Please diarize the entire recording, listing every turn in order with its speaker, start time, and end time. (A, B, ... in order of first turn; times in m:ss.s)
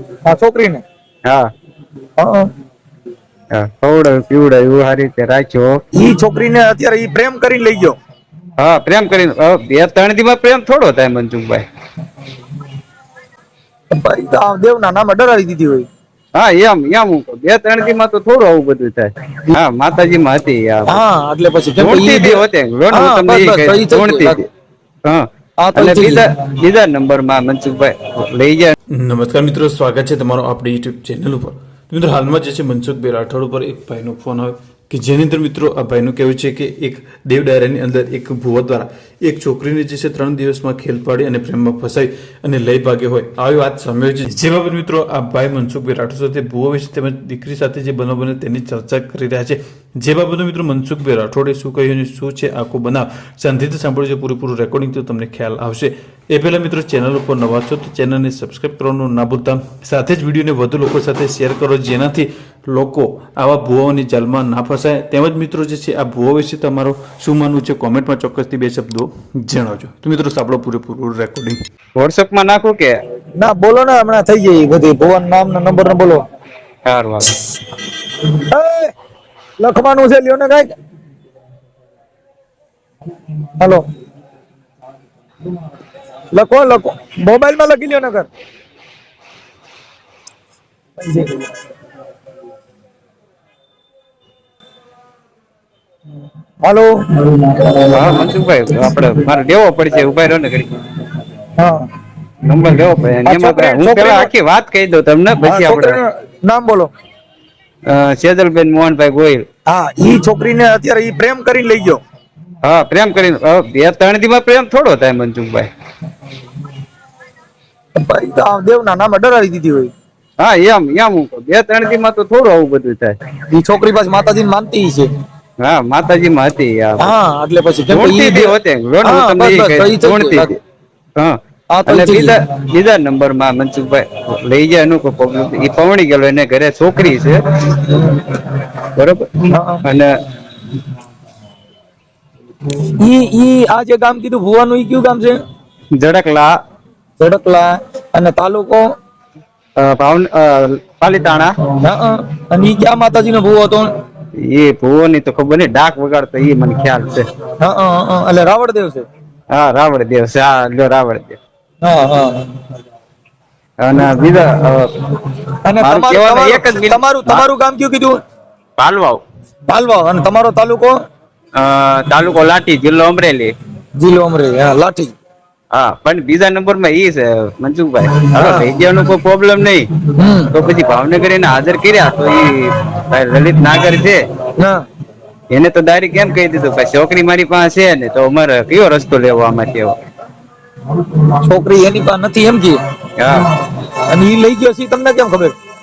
0:00.2-0:00.8 A
0:02.2-0:02.5 A
0:03.5-0:05.8 B
0:05.9-0:08.0 A
0:08.6-0:11.6 B
0:13.9-0:15.9 A
0:16.3-0:21.0 B
0:20.9-0:24.4 A
0:21.8-0:24.4 B
0:25.1-0:28.7 B
0:25.6-0:26.2 A
0:28.9-1:11.6 C
1:12.0-1:13.0 B
1:13.4-1:16.2 A
1:16.8-1:17.4 B
1:18.4-1:18.9 A
1:19.6-1:20.7 A
1:23.6-1:23.8 A
1:26.3-1:28.3 A
1:31.0-1:31.5 A
1:36.6-1:38.2 A
1:37.9-1:40.7 B
1:41.6-1:41.9 A
1:42.4-1:46.0 B
1:43.2-1:44.3 A
1:45.4-1:46.9 A
1:47.9-1:49.4 B
1:49.7-1:52.0 A
1:52.6-1:55.7 B
1:58.0-1:59.9 A
2:00.4-2:03.1 B
2:03.5-2:05.1 A
2:05.6-2:07.1 B
2:07.0-2:10.5 A
2:07.9-2:10.6 B
2:11.2-2:17.4 B
2:11.7-2:12.4 A
2:19.0-2:19.3 B
2:19.5-2:19.8 A
2:19.8-2:20.1 B
2:23.0-2:25.4 A
2:25.9-2:26.6 B
2:27.2-2:28.8 A
2:29.8-2:31.5 B
2:31.8-2:33.9 A
2:34.4-2:37.3 B
2:37.6-2:39.0 A
2:39.5-2:41.4 B
2:41.8-2:42.5 A
2:43.8-2:44.9 B
2:45.6-2:48.1 A
2:45.8-2:47.5 B
2:48.8-2:49.2 B
2:49.7-2:50.9 A
2:51.6-2:53.5 B
2:54.0-2:55.1 A
2:55.7-2:59.9 B
2:58.4-2:58.7 A
3:00.2-3:00.5 A
3:00.5-3:04.2 B
3:05.5-3:10.0 B
3:11.4-3:12.8 A
3:13.2-3:13.5 B
3:13.7-3:15.5 A